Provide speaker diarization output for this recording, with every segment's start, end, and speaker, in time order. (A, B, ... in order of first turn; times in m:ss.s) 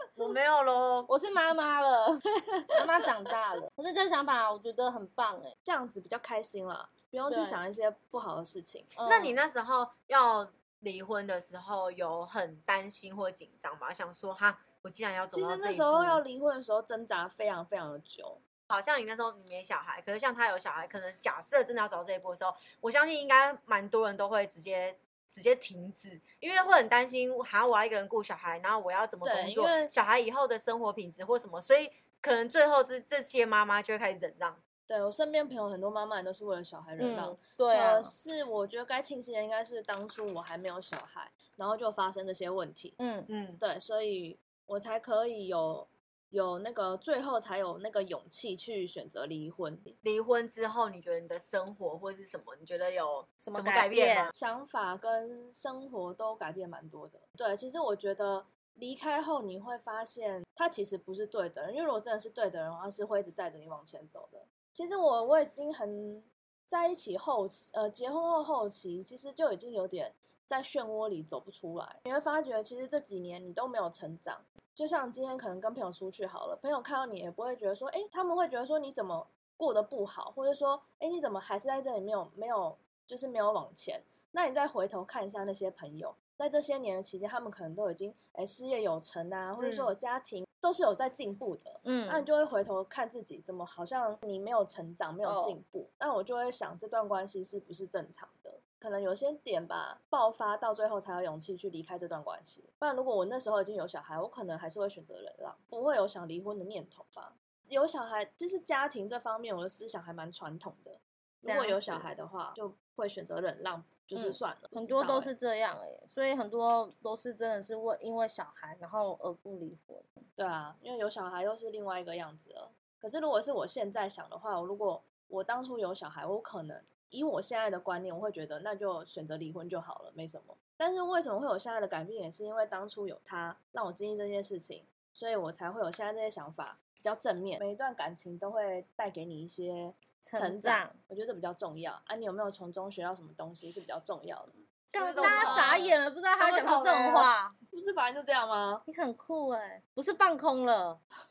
0:00.2-0:01.1 A
0:01.1-0:05.5 B
0:02.4-0:02.9 C
0:05.6-0:09.0 C
0:07.3-0:07.6 B
0:09.0-0:09.4 B
0:09.0-0:16.2 A
0:15.3-0:18.4 C
0:18.7-0:34.6 A
0:29.2-0:29.9 C
0:34.9-0:43.0 C
0:37.0-0:38.1 B
0:43.0-0:43.3 B
0:43.3-0:43.6 A
0:43.6-0:50.0 C
0:50.0-0:54.3 A
0:53.4-0:54.3 B
0:54.3-1:55.3 C
1:29.6-1:29.9 A
1:31.8-1:32.3 B
1:35.2-1:35.6 B
1:51.4-1:52.1 B
1:54.1-2:00.2 B
2:00.4-2:25.9 C
2:20.2-2:21.0 B
2:24.9-2:27.3 A
2:24.9-2:27.6 B
2:27.7-2:28.8 C
2:28.9-2:31.0 B